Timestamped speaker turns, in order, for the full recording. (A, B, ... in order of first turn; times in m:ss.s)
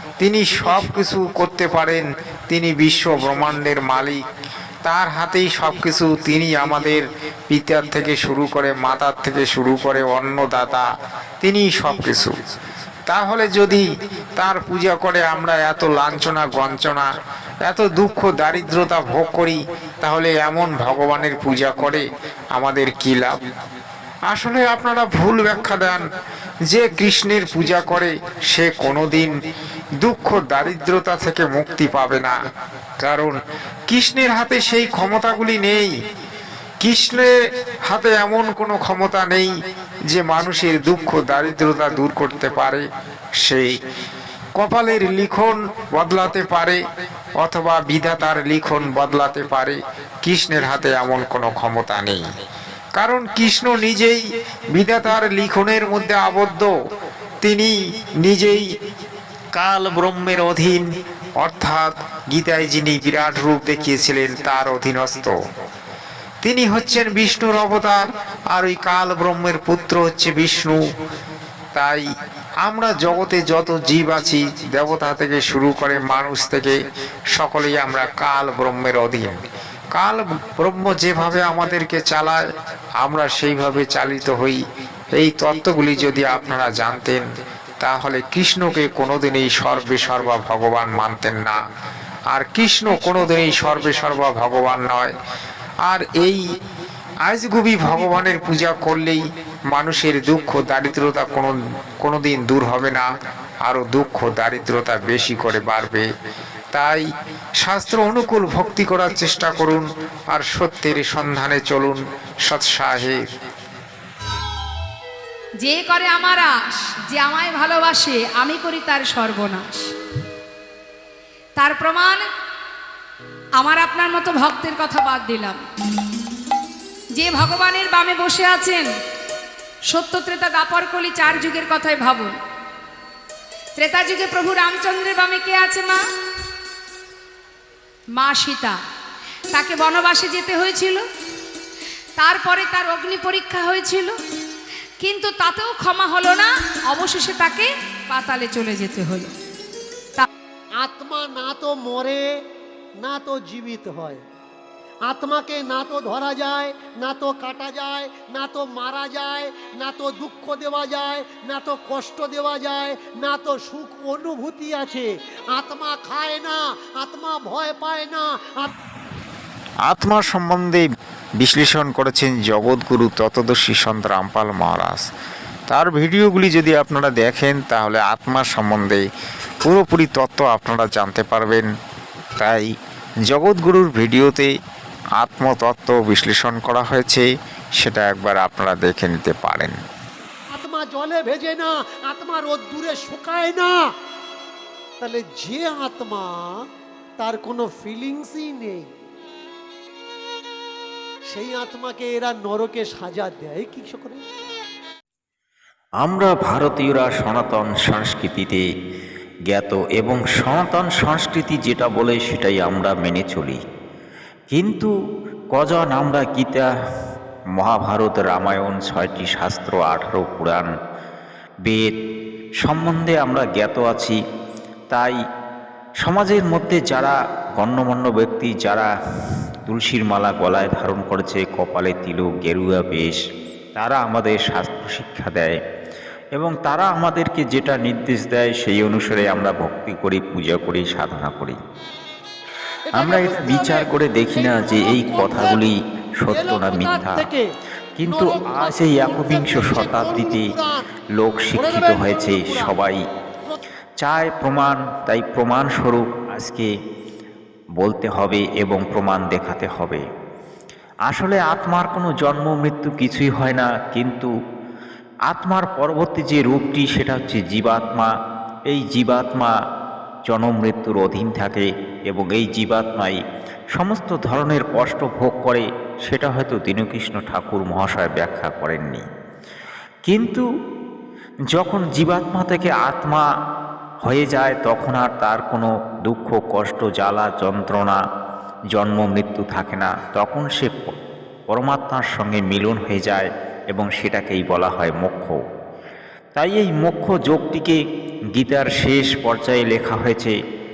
0:00.2-0:04.2 A
0:04.8-0:10.8 A
0:11.4-0:12.4 A
0:13.1-0:13.8 A
0:14.4-0:17.1 A
0:17.6-0:23.4 A
0:24.3-0:26.0 A
0:26.7-0:29.3 A
0:30.0-0:32.3 A
0:33.0-0:33.4 A
0:33.9-0:35.9 A
0:36.8-0:39.5 A
0:40.1-0:42.8 A
0:43.4-0:43.8 A
0:44.6-0:46.8 A
0:47.4-0:52.2 A
0:53.0-0:54.2 A
0:54.7-0:56.7 A
0:57.4-0:58.7 A
0:59.5-1:00.8 A
1:01.4-1:05.3 A
1:06.4-1:08.0 A
1:08.5-1:10.8 A
1:11.7-1:12.0 A
1:12.6-1:16.8 A
1:17.3-1:19.4 A
1:19.9-1:22.4 A
1:23.0-1:24.6 A
1:25.1-1:27.2 A
1:27.8-1:31.6 A
1:32.3-1:35.1 A
1:35.8-1:36.4 A
1:37.2-1:43.1 A
1:43.6-1:46.1 A
1:46.7-1:47.0 A
1:47.6-1:53.2 A
1:55.6-1:59.9 B
2:01.6-2:02.2 B
2:03.6-2:05.6 B
2:07.1-2:08.9 B
2:09.9-2:12.3 B
2:13.8-2:16.0 B
2:18.2-2:18.8 B
2:19.5-2:21.0 B
2:22.2-2:24.1 B
2:25.0-2:29.3 B
2:30.8-2:32.2 C
2:33.0-2:34.2 C
2:35.0-2:48.7 C
2:49.8-2:50.8 A
2:51.4-2:55.0 A
2:55.7-2:59.0 A
2:59.6-3:01.7 A
3:02.4-3:02.7 A
3:03.3-3:04.5 A
3:05.2-3:07.3 A
3:07.8-3:09.8 A
3:10.5-3:13.8 C
3:15.0-3:16.5 C
3:17.2-3:18.9 C
3:21.3-3:24.2 C
3:26.0-3:28.6 D
3:29.5-3:33.6 D
3:34.5-3:34.9 D
3:35.5-3:36.7 D
3:37.6-3:40.7 D
3:42.6-3:44.2 D
3:46.0-3:48.9 D
3:49.7-3:53.2 D
3:53.8-3:55.5 D
3:56.4-4:01.6 D
4:02.9-4:05.7 C
4:02.9-4:07.3 D
4:06.3-4:07.5 C
4:08.0-4:10.5 D
4:08.0-4:10.8 C
4:11.2-4:13.0 D
4:11.5-4:12.7 C
4:14.0-4:16.7 D
4:17.8-4:20.0 D
4:21.1-4:24.3 D
4:25.3-4:28.1 D
4:28.7-4:29.5 D
4:30.3-4:33.2 D
4:33.7-4:39.0 D
4:40.1-4:40.4 D
4:41.5-4:43.2 D
4:44.0-4:48.0 D
4:48.7-4:50.9 D
4:51.5-4:55.4 D
4:56.4-4:57.8 D
4:58.3-5:00.3 D